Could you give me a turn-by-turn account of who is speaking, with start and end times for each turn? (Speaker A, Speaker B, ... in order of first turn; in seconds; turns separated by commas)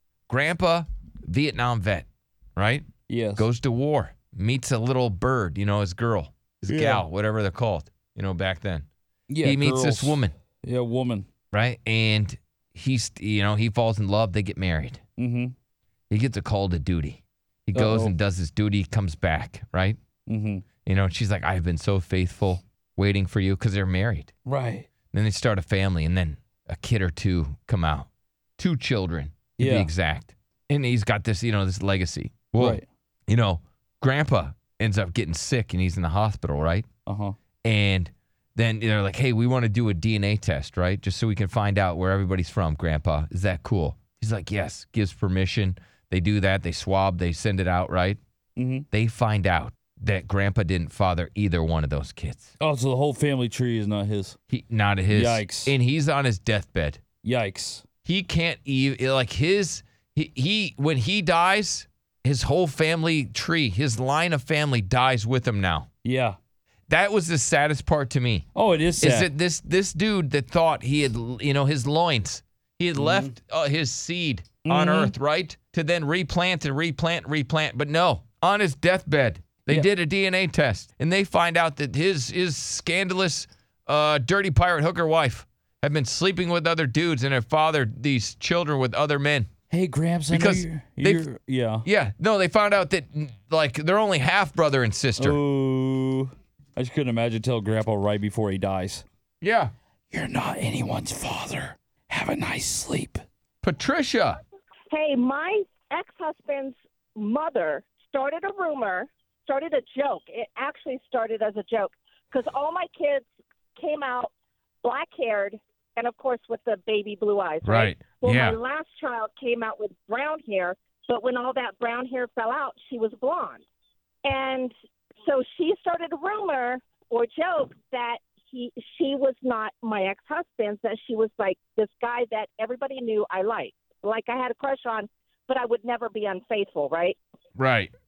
Speaker A: 0.3-8.9, Speaker B: 3.1-3.5, Speaker B: 6.7-7.0, Speaker B: 9.3-11.3, Speaker A: 9.4-10.3, Speaker A: 11.5-15.0, Speaker B: 15.2-15.5, Speaker A: 16.1-20.0, Speaker B: 17.7-18.1, Speaker B: 20.3-20.6, Speaker A: 20.8-24.3, Speaker B: 24.4-24.9, Speaker A: 25.1-36.9, Speaker B: 29.6-29.9, Speaker B: 32.6-32.9, Speaker B: 37.0-37.3, Speaker A: 37.6-48.2, Speaker B: 48.6-48.9, Speaker A: 48.9-52.5, Speaker B: 52.6-54.4, Speaker A: 54.5-57.0, Speaker B: 55.1-55.7, Speaker B: 57.2-57.8, Speaker A: 58.0-65.9, Speaker B: 66.0-66.4, Speaker A: 66.9-68.5, Speaker B: 68.5-69.3, Speaker A: 69.0-89.5, Speaker B: 73.0-73.3, Speaker B: 74.7-75.1, Speaker B: 89.7-91.8, Speaker A: 90.3-91.2, Speaker A: 91.8-95.4, Speaker B: 95.2-99.0, Speaker A: 99.4-99.7, Speaker B: 100.1-103.2, Speaker A: 103.6-104.4, Speaker C: 104.9-113.2, Speaker C: 113.8-114.3, Speaker C: 114.8-123.6, Speaker A: 117.6-118.6, Speaker C: 124.2-137.2, Speaker A: 137.6-137.9